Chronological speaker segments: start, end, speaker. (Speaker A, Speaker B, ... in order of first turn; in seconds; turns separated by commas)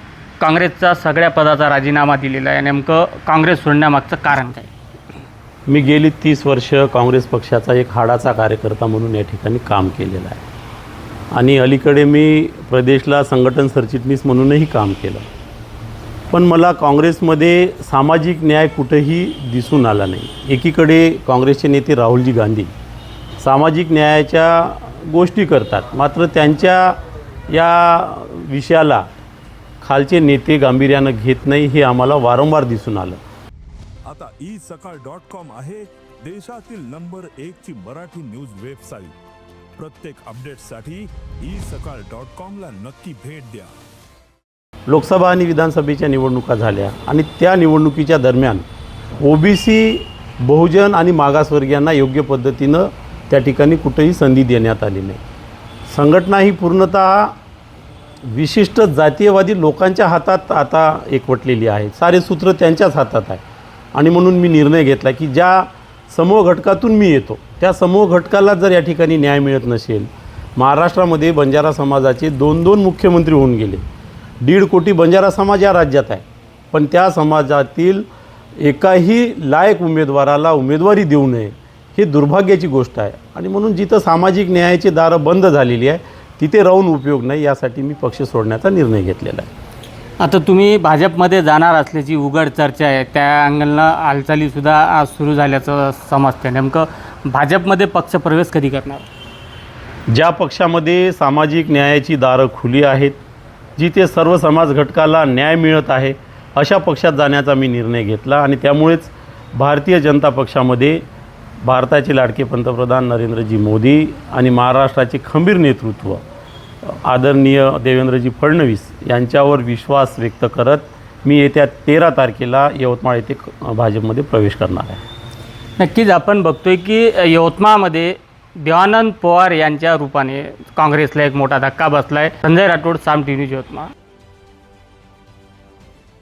Speaker A: 0.4-4.7, Speaker B: 5.7-10.4, Speaker B: 11.3-15.3, Speaker B: 16.3-22.7, Speaker B: 23.4-27.0, Speaker B: 27.5-29.1, Speaker B: 29.8-33.2, Speaker C: 34.0-39.1, Speaker C: 39.8-43.7, Speaker B: 44.9-48.6, Speaker B: 49.2-55.2, Speaker B: 55.9-57.3, Speaker B: 58.2-63.4, Speaker B: 63.9-73.8, Speaker B: 74.4-78.1, Speaker B: 78.6-89.5, Speaker A: 90.2-99.1, Speaker B: 100.1-103.2, Speaker B: 103.8-111.0, Speaker B: 111.6-116.2, Speaker B: 116.8-125.0, Speaker A: 125.8-133.9